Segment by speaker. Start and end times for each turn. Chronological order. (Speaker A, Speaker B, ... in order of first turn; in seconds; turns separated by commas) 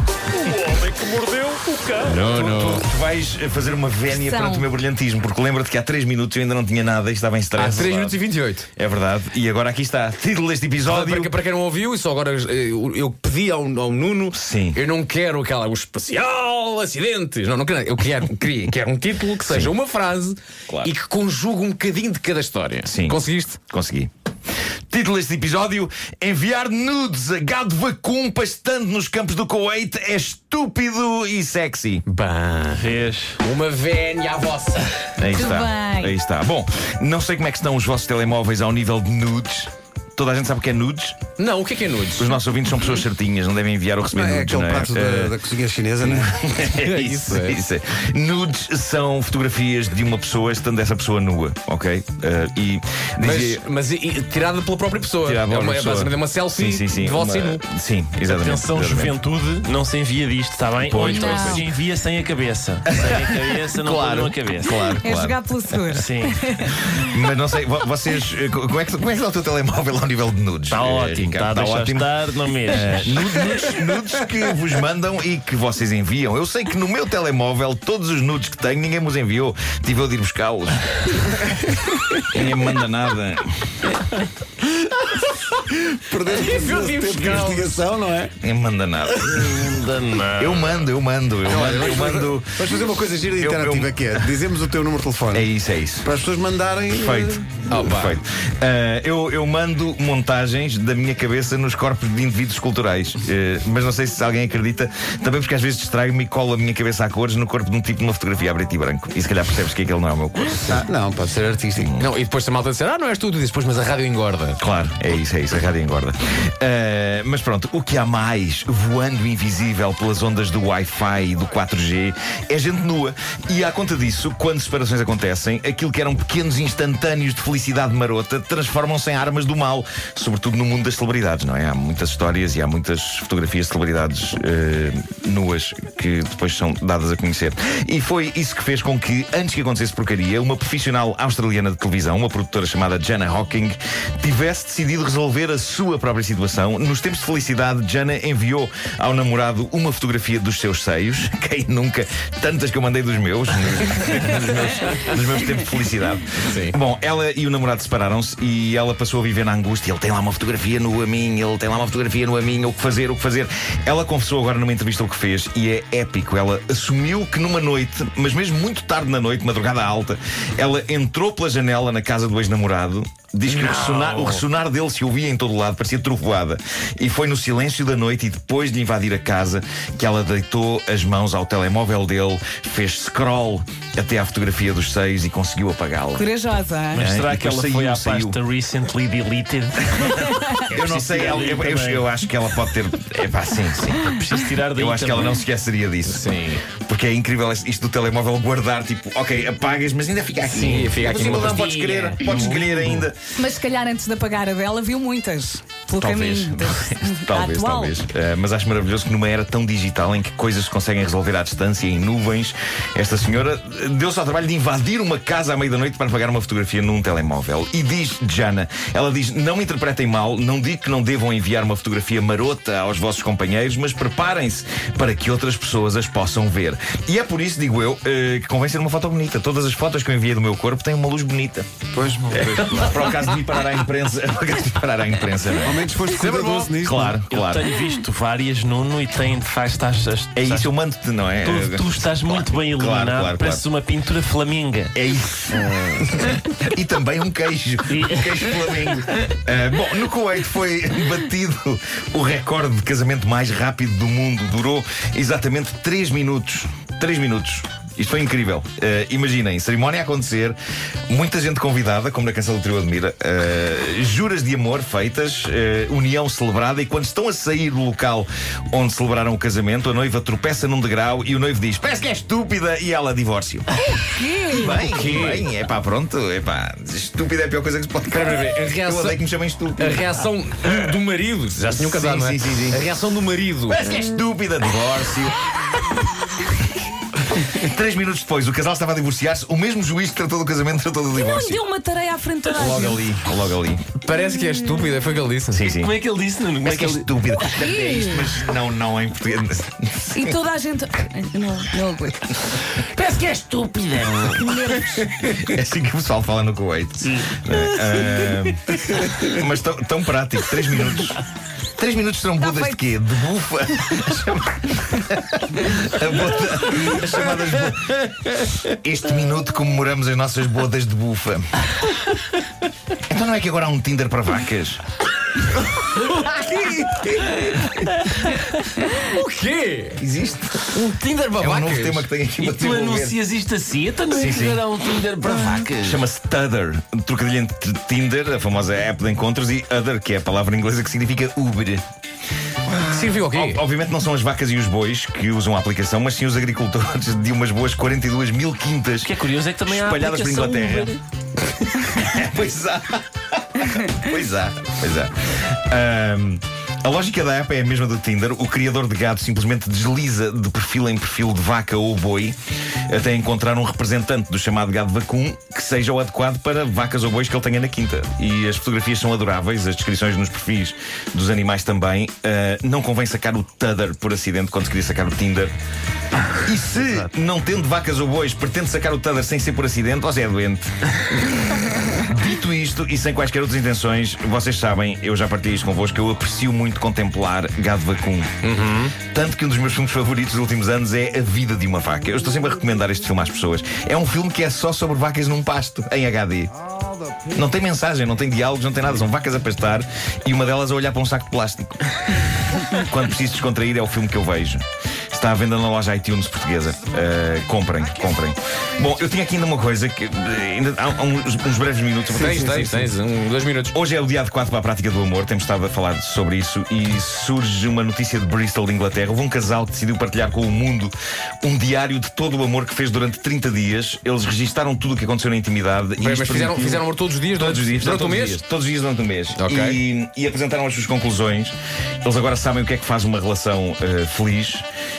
Speaker A: 0.4-2.2, Speaker B: 2.0-2.9, Speaker C: 2.1-8.2, Speaker D: 4.1-4.7, Speaker B: 7.6-8.7, Speaker C: 8.8-11.3, Speaker B: 10.8-23.6, Speaker C: 14.3-14.8, Speaker C: 19.4-19.7, Speaker C: 22.9-23.2, Speaker C: 23.7-24.1, Speaker C: 24.9-32.0, Speaker B: 32.1-34.9, Speaker A: 32.8-33.4, Speaker C: 35.2-41.2, Speaker D: 35.3-36.2, Speaker B: 41.4-42.4, Speaker C: 42.2-45.4, Speaker E: 44.1-46.4, Speaker C: 46.0-53.6, Speaker B: 46.7-47.6, Speaker B: 53.2-57.6, Speaker C: 55.2-59.2, Speaker A: 58.3-64.9, Speaker C: 60.8-61.7, Speaker D: 61.0-61.6, Speaker C: 62.9-66.0, Speaker D: 65.0-67.1, Speaker A: 65.9-66.5, Speaker C: 66.7-72.1, Speaker A: 70.7-73.5, Speaker C: 72.7-81.2, Speaker E: 81.7-82.2, Speaker C: 82.3-83.8, Speaker E: 85.7-88.3, Speaker B: 86.2-87.8, Speaker C: 88.4-89.7, Speaker A: 89.3-90.9, Speaker C: 90.4-92.7, Speaker E: 91.5-95.5, Speaker C: 93.3-94.3, Speaker C: 95.3-96.1, Speaker E: 96.0-97.4, Speaker C: 96.9-110.9, Speaker B: 97.7-98.2, Speaker E: 110.6-111.9, Speaker C: 111.8-112.1, Speaker B: 112.0-114.6, Speaker C: 114.6-186.3, Speaker B: 156.4-156.8, Speaker A: 173.5-174.4, Speaker D: 186.2-187.0, Speaker A: 186.9-192.2, Speaker C: 186.9-188.4, Speaker C: 190.7-203.2, Speaker A: 193.9-195.4, Speaker B: 196.1-196.6, Speaker A: 200.5-203.1, Speaker B: 200.6-202.2, Speaker D: 203.4-207.9, Speaker C: 206.0-231.7, Speaker E: 231.9-233.0, Speaker C: 232.3-235.8, Speaker E: 235.6-237.2, Speaker B: 236.2-236.7, Speaker C: 236.8-237.7, Speaker A: 237.3-240.7, Speaker C: 240.3-243.6, Speaker A: 241.4-244.9, Speaker C: 244.9-260.6, Speaker A: 247.9-248.6, Speaker C: 261.1-273.7, Speaker D: 274.0-274.9, Speaker C: 274.5-280.1, Speaker B: 274.7-275.5, Speaker B: 278.1-279.2, Speaker B: 279.8-283.8, Speaker C: 281.7-282.8, Speaker C: 283.7-285.4, Speaker C: 287.4-291.6, Speaker D: 291.2-293.0, Speaker C: 292.5-293.8, Speaker B: 294.0-295.7, Speaker C: 295.5-295.9, Speaker A: 295.7-297.3, Speaker C: 296.6-300.4, Speaker D: 297.5-298.3, Speaker D: 300.1-302.3, Speaker A: 302.8-304.7, Speaker D: 304.4-305.0, Speaker C: 305.2-311.2, Speaker A: 307.0-308.4, Speaker C: 311.8-321.5, Speaker D: 312.4-312.8, Speaker C: 323.1-324.8, Speaker B: 325.9-327.6, Speaker B: 328.8-330.0, Speaker C: 330.0-330.7, Speaker B: 330.5-332.1, Speaker C: 331.4-333.2, Speaker A: 332.4-336.0, Speaker C: 334.1-334.6, Speaker C: 335.8-341.8, Speaker C: 342.7-349.1, Speaker B: 342.9-343.6, Speaker A: 349.0-351.0, Speaker C: 349.7-350.9, Speaker C: 351.6-375.5, Speaker C: 376.4-388.3, Speaker A: 376.8-377.1, Speaker B: 388.4-388.9, Speaker C: 389.0-396.6, Speaker C: 397.3-412.5, Speaker E: 412.1-412.9, Speaker B: 412.2-413.8, Speaker C: 413.7-434.7, Speaker B: 426.0-428.4, Speaker B: 429.4-429.8